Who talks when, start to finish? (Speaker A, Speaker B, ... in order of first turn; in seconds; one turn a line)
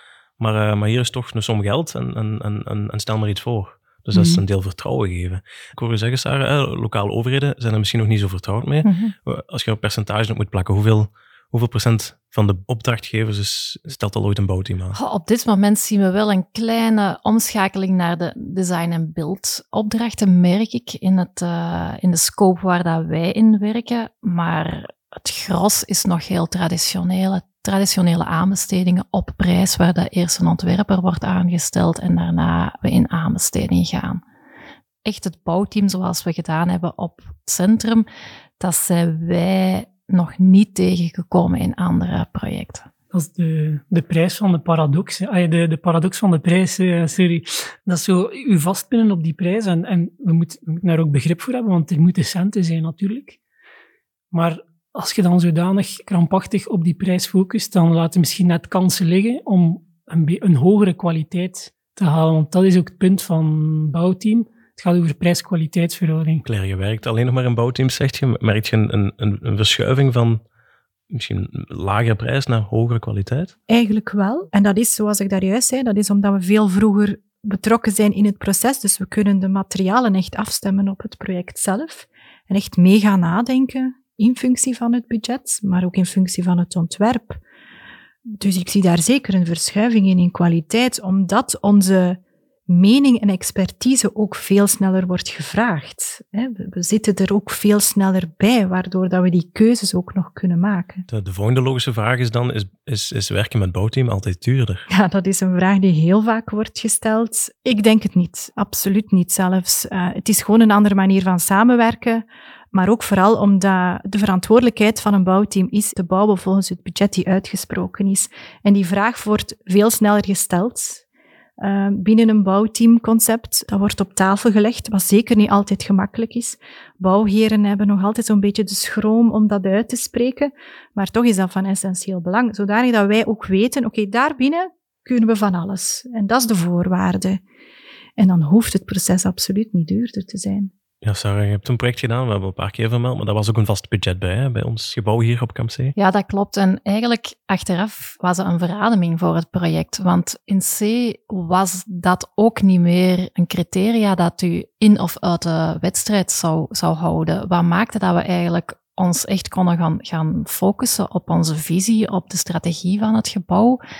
Speaker A: 0.4-15.0
Speaker B: 4.1-4.4
Speaker B: 8.8-9.1
Speaker B: 14.9-34.2
Speaker B: 35.0-38.0
Speaker B: 38.6-42.9
Speaker C: 43.1-53.4
Speaker C: 54.3-66.4
Speaker A: 66.4-70.4
Speaker A: 71.1-73.5
Speaker D: 73.7-87.4
Speaker D: 88.3-101.0
Speaker A: 101.1-104.9
Speaker D: 104.9-121.0
Speaker D: 121.6-137.4
Speaker D: 138.2-140.7
Speaker A: 141.0-145.9
Speaker B: 145.9-163.8